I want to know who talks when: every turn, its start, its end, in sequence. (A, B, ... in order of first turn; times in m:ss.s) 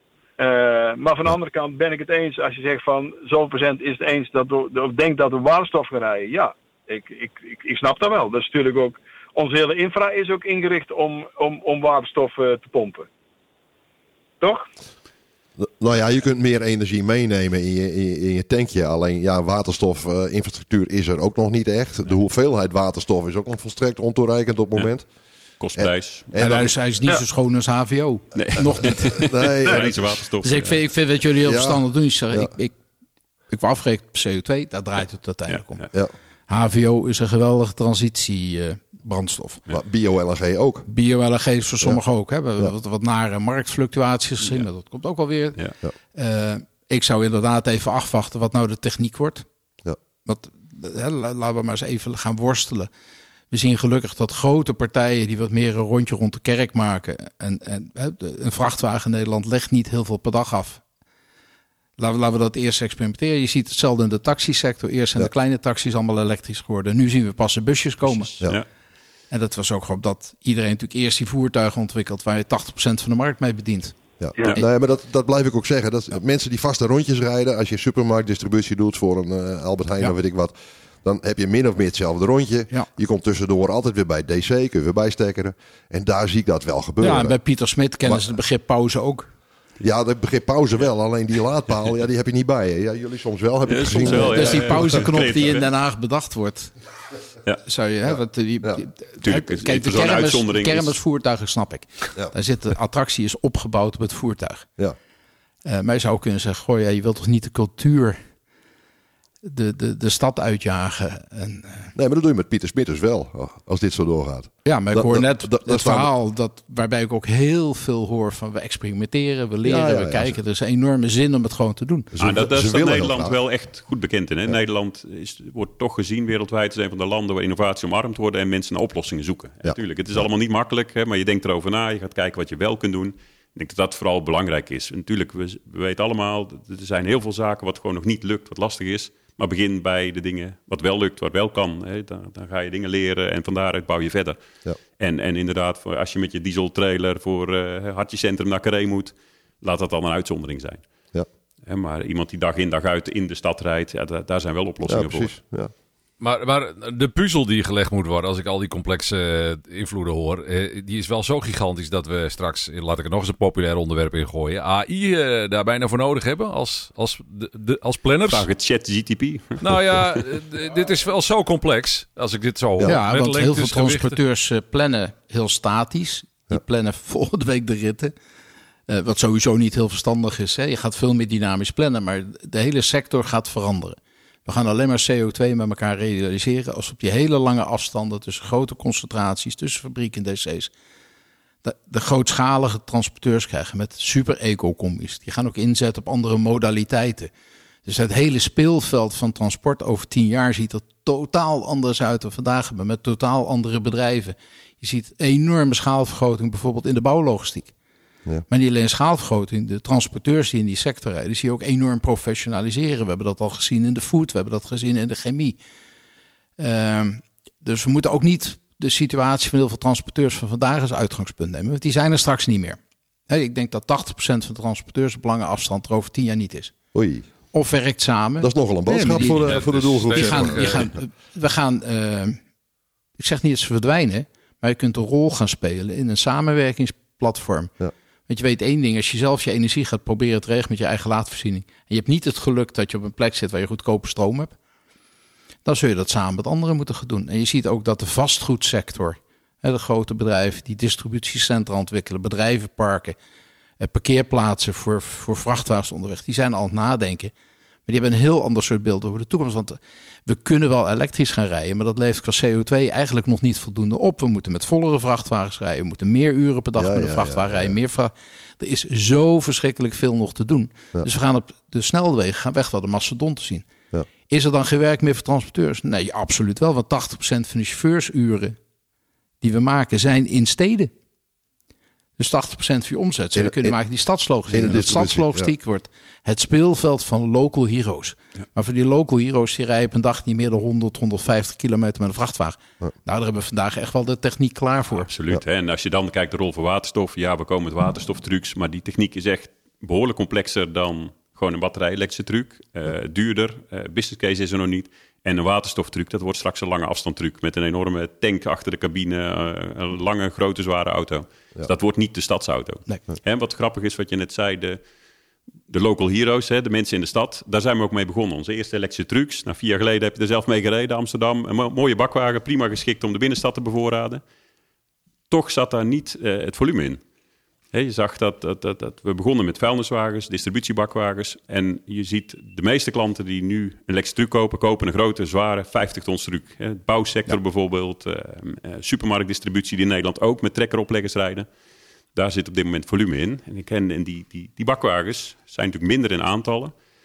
0:00.4-0:13.1 A
0:14.4-0:14.7 A
0:15.6-0:25.0 B
0:25.6-0:26.3 C
0:25.8-0:26.7 B
0:26.4-0:29.1 D
0:28.3-0:30.8 C
0:28.7-0:30.2 B
0:30.4-0:32.8 D
0:31.4-0:32.5 B
0:33.5-0:35.8 D
0:35.5-0:35.8 C
0:36.5-0:39.6 D
0:39.7-0:40.9 B
0:40.9-0:45.6 D
0:46.1-0:49.4 D
0:50.2-0:52.9 D
0:53.5-1:00.8 D
1:02.0-1:08.5 D
1:09.3-1:14.6 D
1:14.2-1:27.4 B
1:27.0-1:29.3 D
1:29.8-1:35.0 B
1:33.7-1:35.6 C
1:34.0-1:36.7 D
1:37.6-1:44.7 D
1:38.1-1:38.8 B
1:39.2-1:41.0 C
1:45.6-1:48.2 D
1:49.4-1:51.9 D
1:52.0-1:56.1 B
1:54.6-2:02.1 D
1:59.6-2:00.4 B
2:02.1-2:03.4 B
2:02.2-2:24.4 C
2:09.6-2:10.2 B
2:25.0-2:30.9 C
2:31.6-2:35.4 C
2:34.8-2:35.7 B
2:36.2-2:48.5 E
2:48.3-2:50.2 C
2:49.6-2:54.2 E
2:52.8-2:58.1 D
2:58.9-3:10.7 D
3:11.6-3:17.3 D
3:17.8-3:27.7 D
3:28.5-3:35.6 D
3:36.6-3:46.7 D
3:46.9-3:47.3 B
3:47.5-3:52.4 D
3:48.4-3:50.9 B
3:49.2-3:50.9 E
3:53.2-3:57.7 D
3:58.3-4:04.6 D
4:05.6-4:13.2 D
4:13.8-4:17.3 D
4:17.8-4:33.7 D
4:26.8-4:27.7 B
4:34.3-4:38.6 D
4:39.4-4:40.9 D
4:42.2-4:55.1 D
4:43.4-4:43.8 B
4:44.5-4:45.5 B
4:55.0-5:14.8 C
5:15.7-5:24.2 C
5:25.3-5:27.0 C
5:27.7-5:41.5 C
5:42.1-5:46.7 C